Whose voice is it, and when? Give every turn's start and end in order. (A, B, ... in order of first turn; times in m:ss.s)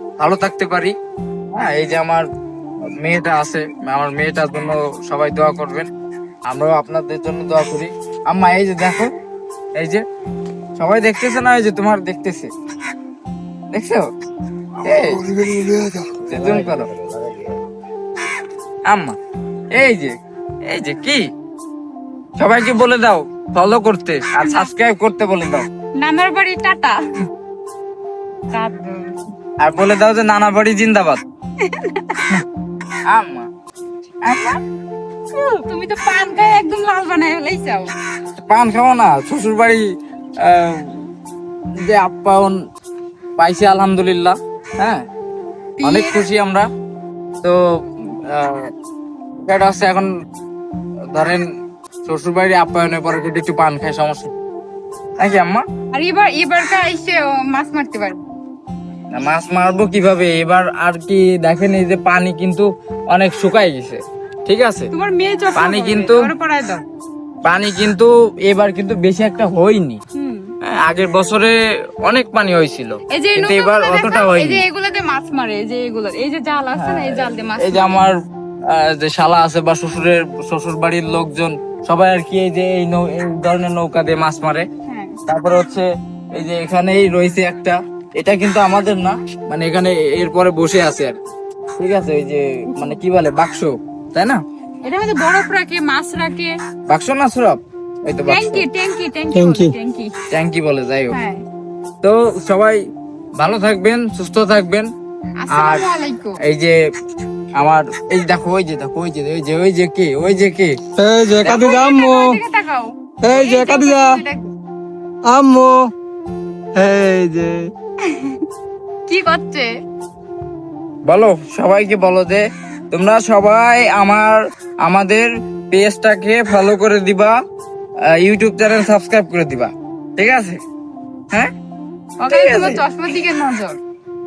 0:00.2-0:00.9 A
0:01.5-0:02.3 A
0:03.0-0:05.9 A
0:06.5-0:09.1 A
0:09.8-0:10.0 A
0:10.8-0:12.5 A
0:13.7-0:14.0 A
0:14.8-0:15.2 A
0:15.2-0:17.4 B
0:16.3-0:16.9 A
0:18.9-0:19.1 A
0:19.8-0:20.1 A
0:20.7-0:21.2 A
0:22.4-0:25.6 A
0:24.4-0:24.7 C
0:26.0-0:27.0 C
0:28.5-0:29.1 C
0:29.6-0:31.2 A
0:31.6-0:32.4 C
0:33.1-0:33.5 A
0:34.2-0:34.6 A
0:35.3-0:37.9 C
0:38.4-0:39.8 A
0:40.4-0:41.1 A
0:41.8-0:42.6 A
0:43.4-0:45.0 A
0:45.8-0:46.2 C
0:45.8-0:46.7 A
0:48.3-0:48.7 A
0:49.4-0:50.1 A
0:51.1-0:51.4 A
0:52.0-0:54.3 A
0:55.2-0:55.6 A
0:55.9-0:58.2 C
0:59.1-1:04.9 A
1:04.9-1:06.8 C
1:05.6-1:06.3 A
1:07.4-1:10.0 A
1:10.1-1:10.5 C
1:10.6-1:14.6 A
1:13.1-1:18.0 C
1:16.8-1:18.1 A
1:18.7-1:24.7 A
1:24.8-1:25.2 C
1:25.3-1:31.1 A
1:31.8-1:34.4 A
1:32.7-1:33.0 C
1:34.8-1:36.5 C
1:36.9-1:38.6 A
1:38.2-1:40.1 C
1:40.3-1:41.2 A
1:41.1-1:41.4 C
1:42.0-1:42.8 A
1:43.4-1:44.9 A
1:45.4-1:46.4 C
1:45.5-1:45.8 A
1:46.4-1:46.8 A
1:47.6-1:51.8 A
1:51.0-1:52.3 B
1:51.5-1:54.5 C
1:53.3-1:54.1 B
1:55.3-1:55.9 B
1:56.7-1:57.6 B
1:58.0-1:58.5 C
1:59.1-1:59.7 C
2:01.1-2:07.3 A
2:08.1-2:10.6 A
2:12.2-2:13.8 C
2:12.3-2:12.8 A